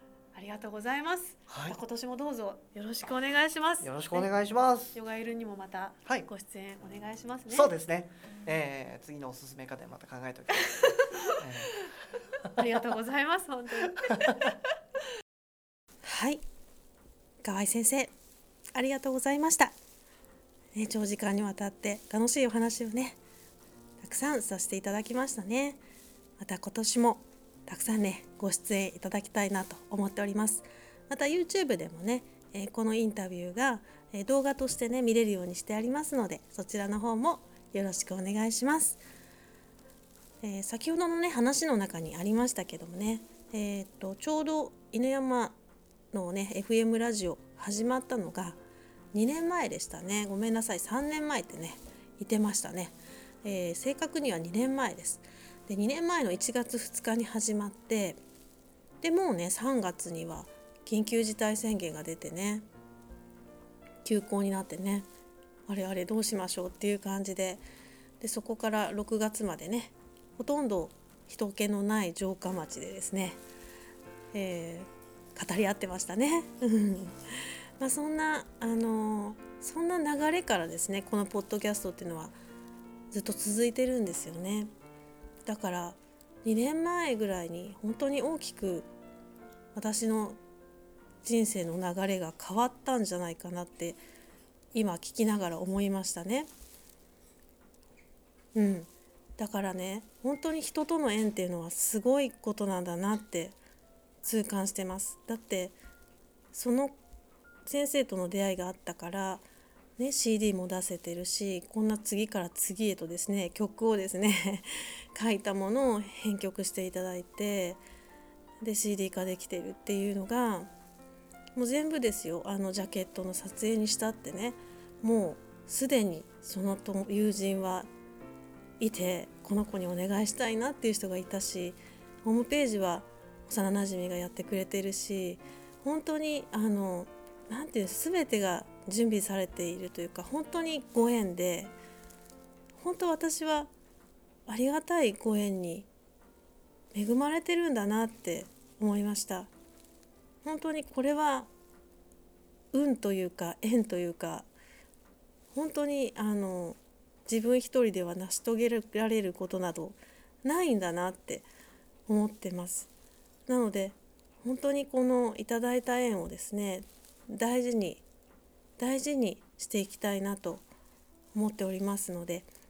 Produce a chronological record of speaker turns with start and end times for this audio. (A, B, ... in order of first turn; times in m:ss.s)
0:00.3-0:04.3 A
0:01.5-0:01.8 B
0:03.8-0:05.0 B
0:04.9-0:07.7 A
0:06.8-0:11.9 B
0:10.6-0:11.4 A
0:12.5-0:14.4 A
0:13.9-0:14.5 B
0:16.0-0:16.4 C
0:17.4-0:18.1 C
0:18.7-0:19.7 C
0:20.7-0:23.2 C
0:24.0-0:25.8 C
0:26.4-0:39.0 C
0:40.4-0:45.6 C
0:46.1-0:48.6 C
0:49.1-0:52.9 C
0:53.4-0:58.2 C
0:59.0-1:02.6 C
1:04.0-1:05.0 C
1:05.7-1:07.6 C
1:08.2-1:13.4 C
1:14.3-1:22.3 C
1:23.1-1:24.7 C
1:25.4-1:28.9 C
1:29.7-1:30.4 C
1:31.2-1:34.0 C
1:34.7-1:36.5 C
1:38.5-1:43.5 C
1:44.2-1:45.7 C
1:46.5-1:46.9 C
1:47.6-1:49.4 C
1:50.0-1:57.8 C
1:58.6-2:00.7 C
2:01.6-2:07.9 C
2:08.8-2:21.7 C
2:22.8-2:23.7 C
2:24.5-2:25.9 C
2:26.9-2:29.5 C
2:30.4-2:31.5 C
2:32.7-2:34.5 C
2:35.5-2:41.4 C
2:42.1-2:42.9 C
2:43.5-2:48.0 C
2:48.8-2:50.6 C
2:51.3-2:52.4 C